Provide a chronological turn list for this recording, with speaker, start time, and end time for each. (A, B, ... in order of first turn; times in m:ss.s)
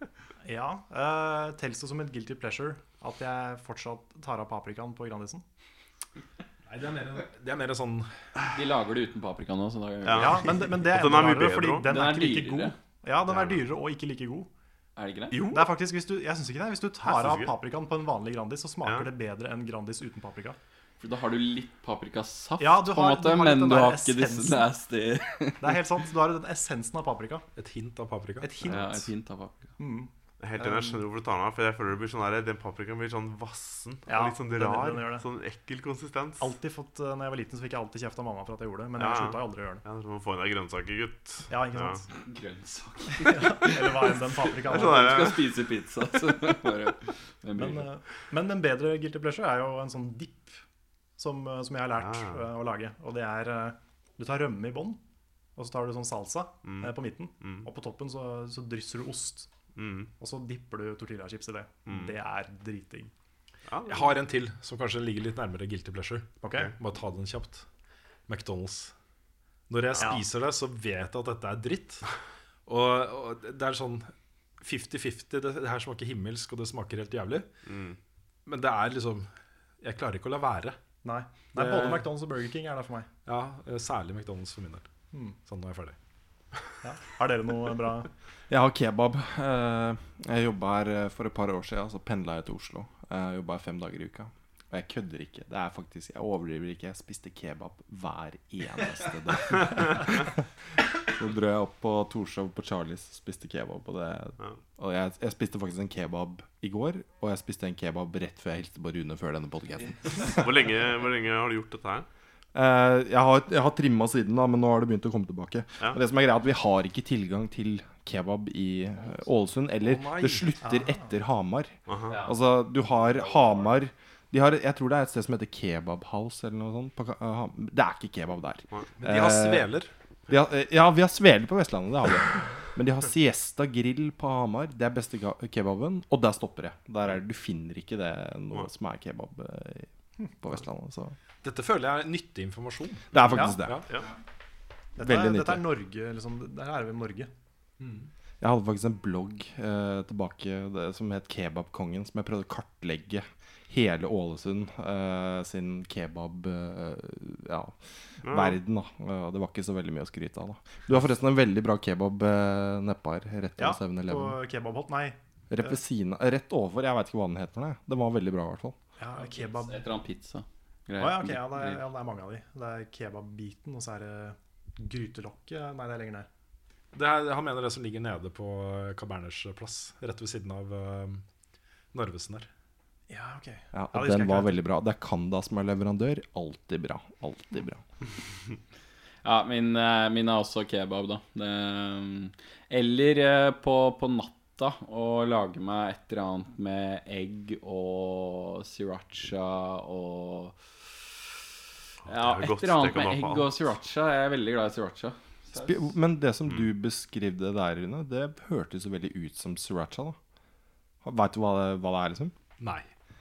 0:00.4-0:05.4 A
0:06.7-0:08.3 B
0:08.5-0:10.7 C
0:10.1-0:11.9 D
0:10.2-0:14.5 A
0:11.8-0:12.8 C
0:13.3-0:13.6 D
0:15.0-0:15.5 C
0:15.3-0:15.7 D
0:15.5-0:20.6 A
0:17.0-0:17.5 D
0:18.8-0:19.1 D
0:21.0-0:25.8 C
0:22.6-0:24.7 A
0:25.6-0:27.5 A
0:27.6-0:28.8 B
0:28.4-0:29.2 A
0:28.6-0:29.8 C
0:29.8-0:31.0 A
0:30.4-0:36.5 D
0:34.1-0:35.2 A
0:36.4-0:39.8 A
0:39.0-0:42.1 D
0:41.5-0:42.1 A
0:42.1-0:47.9 C
0:43.2-0:45.2 A
0:44.7-0:45.5 D
0:47.6-0:50.6 A
0:51.2-0:55.0 A
0:52.0-0:52.4 D
0:55.6-0:59.5 A
0:56.6-0:57.7 D
0:59.8-1:00.1 D
1:00.2-1:03.1 A
1:01.9-1:02.1 D
1:03.7-1:04.2 D
1:03.9-1:07.7 B
1:06.4-1:06.7 A
1:08.3-1:09.0 B
1:09.7-1:12.2 B
1:12.7-1:17.5 B
1:17.7-1:18.0 D
1:18.5-1:20.8 B
1:21.0-1:23.1 A
1:21.5-1:22.1 B
1:23.3-1:24.9 B
1:25.4-1:26.0 B
1:26.8-1:28.1 A
1:28.5-1:40.2 E
1:39.6-1:40.1 D
1:41.0-1:50.5 E
1:50.3-1:52.1 D
1:52.5-2:09.7 E
1:59.8-2:00.5 B
2:00.6-2:01.1 A
2:01.9-2:02.2 D
2:02.1-2:03.7 C
2:09.0-2:09.9 B
2:10.3-2:21.2 E
2:21.4-2:24.0 B
2:23.1-2:23.8 E
2:23.3-2:23.6 A
2:25.0-2:27.3 A
2:25.0-2:25.6 E
2:27.8-2:28.1 B
2:28.4-2:44.4 E
2:38.2-2:38.6 D
2:43.6-2:45.8 A
2:45.5-2:48.8 E
2:49.0-2:49.8 A
2:49.1-2:51.8 C
2:51.0-2:56.3 A
2:56.9-3:01.2 B
3:01.9-3:02.5 B
3:03.1-3:04.6 A
3:03.7-3:07.8 E
3:09.2-3:21.1 C
3:22.0-3:23.6 D
3:22.0-3:25.9 C
3:25.5-3:30.2 E
3:31.0-3:32.3 E
3:32.6-3:32.9 B